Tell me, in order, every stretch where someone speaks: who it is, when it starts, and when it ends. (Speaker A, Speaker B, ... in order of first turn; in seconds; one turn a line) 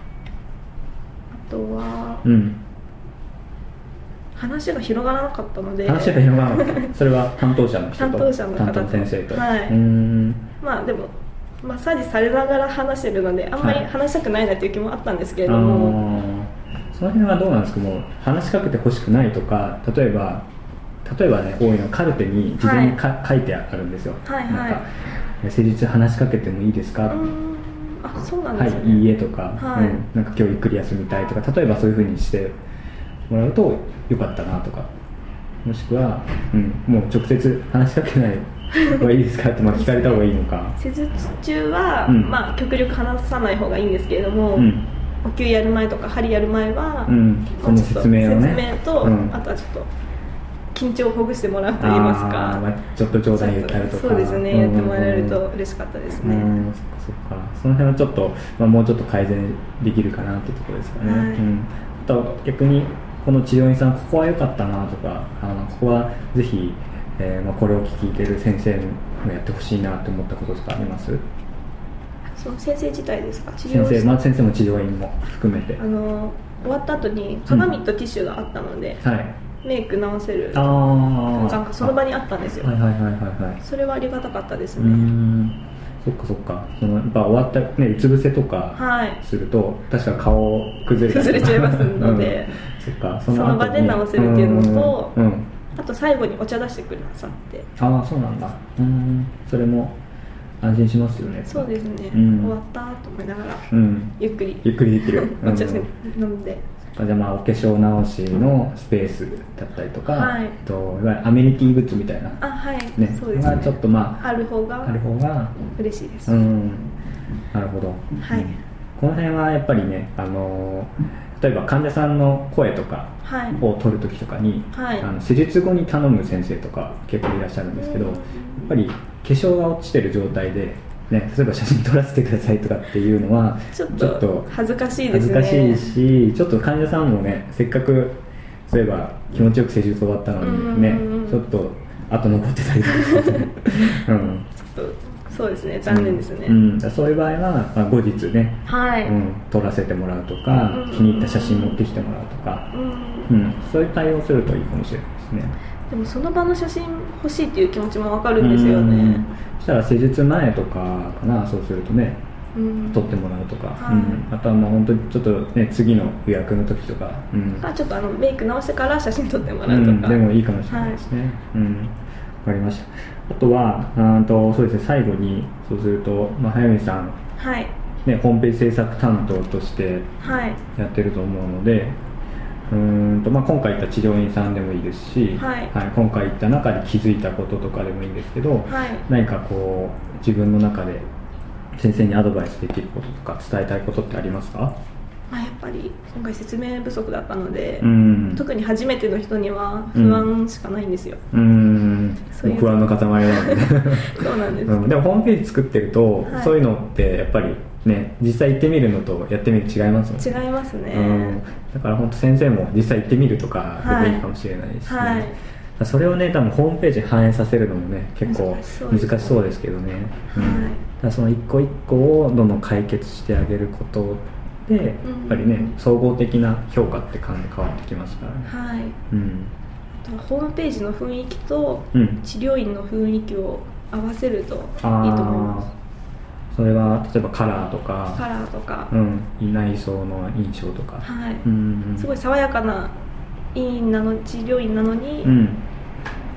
Speaker A: 1.3-2.2
Speaker B: 2.2-2.6
Speaker A: 4.4-6.9
Speaker B: 5.8-10.5
Speaker A: 8.0-9.8
Speaker A: 10.6-16.0
Speaker B: 13.6-13.8
Speaker B: 15.5-20.5
Speaker B: 21.0-24.9
Speaker A: 22.6-23.0
Speaker A: 24.2-24.8
Speaker B: 25.4-27.3
Speaker A: 27.1-30.0
Speaker B: 28.5-32.6
Speaker B: 33.3-34.9
Speaker B: 35.6-40.8
Speaker A: 39.8-40.2
Speaker A: 40.8-44.7
Speaker B: 42.1-42.4
Speaker B: 44.6-44.9
Speaker A: 45.2-49.9
Speaker B: 47.1-49.4
Speaker A: 50.7-52.6
Speaker B: 51.8-55.4
Speaker A: 53.4-56.6
Speaker B: 56.2-71.2
Speaker A: 61.0-61.5
Speaker A: 72.3-74.2
Speaker B: 73.7-75.8
Speaker A: 75.8-79.0
Speaker B: 79.0-79.4
Speaker A: 79.6-82.7
Speaker B: 80.5-82.0
Speaker B: 82.6-83.6
Speaker A: 83.6-85.1
Speaker B: 84.8-95.5
Speaker A: 88.8-89.2
Speaker A: 91.0-92.6
Speaker A: 93.3-95.1
Speaker A: 95.8-97.7
Speaker B: 97.8-100.0
Speaker B: 100.6-102.5
Speaker A: 101.5-106.6
Speaker B: 103.7-105.9
Speaker B: 106.9-112.4
Speaker A: 110.0-110.6
Speaker A: 112.4-115.0
Speaker B: 113.0-114.3
Speaker B: 114.8-115.6
Speaker A: 115.7-116.4
Speaker B: 116.3-116.9
Speaker B: 117.5-134.5
Speaker A: 118.2-118.6
Speaker A: 123.2-123.6
Speaker A: 124.7-125.1
Speaker A: 127.8-128.7
Speaker A: 133.7-135.9
Speaker B: 135.1-144.5
Speaker A: 140.4-141.4
Speaker A: 144.6-146.6
Speaker B: 145.9-152.7
Speaker A: 148.7-149.2
Speaker A: 150.5-151.8
Speaker A: 152.7-153.3
Speaker B: 153.3-155.6
Speaker A: 155.9-159.3
Speaker B: 158.4-162.2
Speaker A: 162.6-163.1
Speaker B: 162.9-167.7
Speaker A: 163.8-164.2
Speaker A: 167.6-171.0
Speaker B: 169.6-177.2
Speaker A: 177.4-177.7
Speaker B: 178.1-180.1
Speaker A: 180.2-180.6
Speaker B: 180.7-182.0
Speaker B: 182.7-191.1
Speaker A: 185.4-185.7
Speaker A: 188.7-189.0
Speaker B: 191.8-194.8
Speaker A: 195.3-201.2
Speaker B: 197.8-198.4
Speaker B: 199.9-200.3
Speaker B: 201.3-210.3
Speaker A: 202.3-204.9
Speaker A: 206.2-206.6
Speaker A: 210.2-211.4
Speaker B: 210.9-228.5
Speaker A: 213.8-214.3
Speaker A: 214.8-215.4
Speaker A: 218.2-219.5
Speaker A: 220.3-220.8
Speaker A: 225.0-225.7
Speaker A: 228.4-229.0
Speaker B: 229.1-229.5
Speaker A: 230.0-235.7
Speaker B: 231.9-232.2
Speaker B: 234.8-235.7
Speaker B: 236.5-238.2
Speaker A: 238.2-238.9
Speaker B: 238.9-242.1
Speaker A: 241.0-243.0
Speaker A: 243.5-245.3
Speaker B: 245.2-245.7